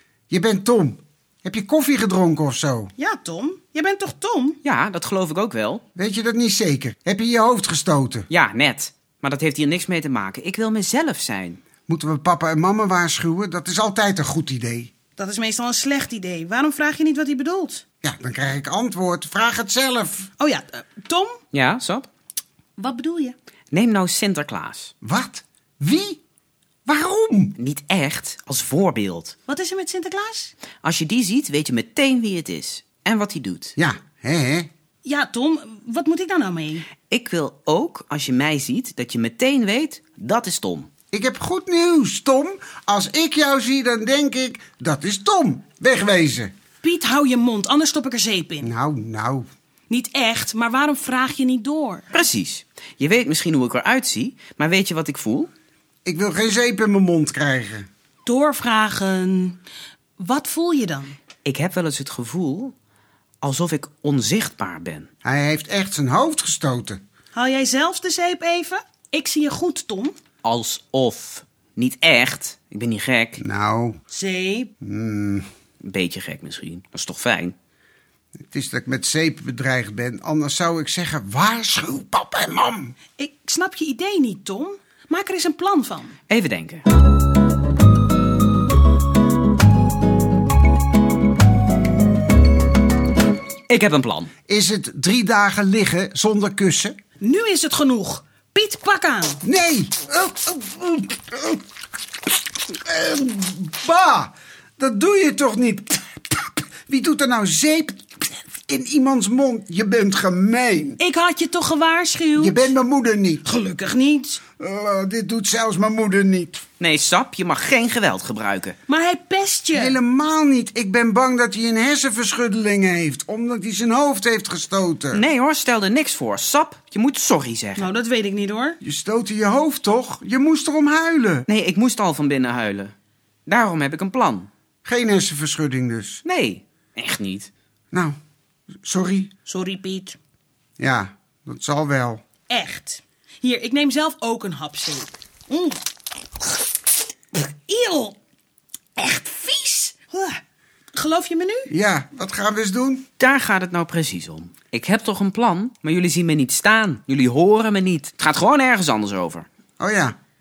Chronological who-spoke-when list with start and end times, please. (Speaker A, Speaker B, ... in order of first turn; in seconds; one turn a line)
Speaker A: 0.3-2.9
Speaker B: 3.0-4.6
Speaker C: 4.6-5.8
Speaker A: 6.0-8.3
Speaker C: 8.3-11.6
Speaker A: 11.9-14.9
Speaker B: 15.2-17.8
Speaker A: 18.0-20.3
Speaker B: 20.4-21.4
Speaker C: 21.5-22.1
Speaker B: 22.8-23.3
Speaker C: 23.7-24.9
Speaker A: 25.0-26.2
Speaker A: 26.9-27.6
Speaker C: 27.6-29.3
Speaker B: 29.5-30.5
Speaker C: 30.8-33.7
Speaker A: 33.8-34.7
Speaker B: 35.0-36.9
Speaker C: 37.0-40.9
Speaker A: 41.1-46.5
Speaker B: 46.8-48.7
Speaker A: 48.6-49.5
Speaker B: 49.9-52.1
Speaker C: 52.1-55.5
Speaker A: 56.0-57.9
Speaker B: 58.2-59.6
Speaker B: 60.2-61.1
Speaker C: 61.4-62.7
Speaker C: 63.4-65.1
Speaker A: 65.2-67.0
Speaker B: 67.3-70.1
Speaker C: 70.4-73.4
Speaker A: 73.4-74.0
Speaker B: 74.1-74.7
Speaker A: 74.8-75.5
Speaker C: 75.8-77.5
Speaker A: 78.5-83.0
Speaker B: 83.2-86.2
Speaker C: 86.3-86.8
Speaker C: 93.7-94.3
Speaker A: 94.5-97.0
Speaker B: 97.2-99.4
Speaker A: 99.4-101.6
Speaker A: 102.7-111.0
Speaker B: 111.0-112.7
Speaker A: 112.4-113.4
Speaker B: 113.4-114.4
Speaker A: 114.6-116.6
Speaker C: 116.8-118.8
Speaker B: 118.9-120.0
Speaker A: 119.8-125.2
Speaker C: 125.1-127.9
Speaker B: 127.8-128.8
Speaker A: 128.8-131.4
Speaker C: 131.5-132.9
Speaker C: 133.5-134.5
Speaker A: 134.8-136.2
Speaker C: 136.2-137.5
Speaker A: 137.9-138.2
Speaker A: 138.8-139.3
Speaker B: 139.4-140.2
Speaker A: 140.8-142.2
Speaker B: 142.5-145.8
Speaker B: 147.3-148.2
Speaker B: 149.0-150.4
Speaker B: 150.9-151.7
Speaker A: 151.7-153.1
Speaker C: 153.2-159.4
Speaker A: 159.8-160.1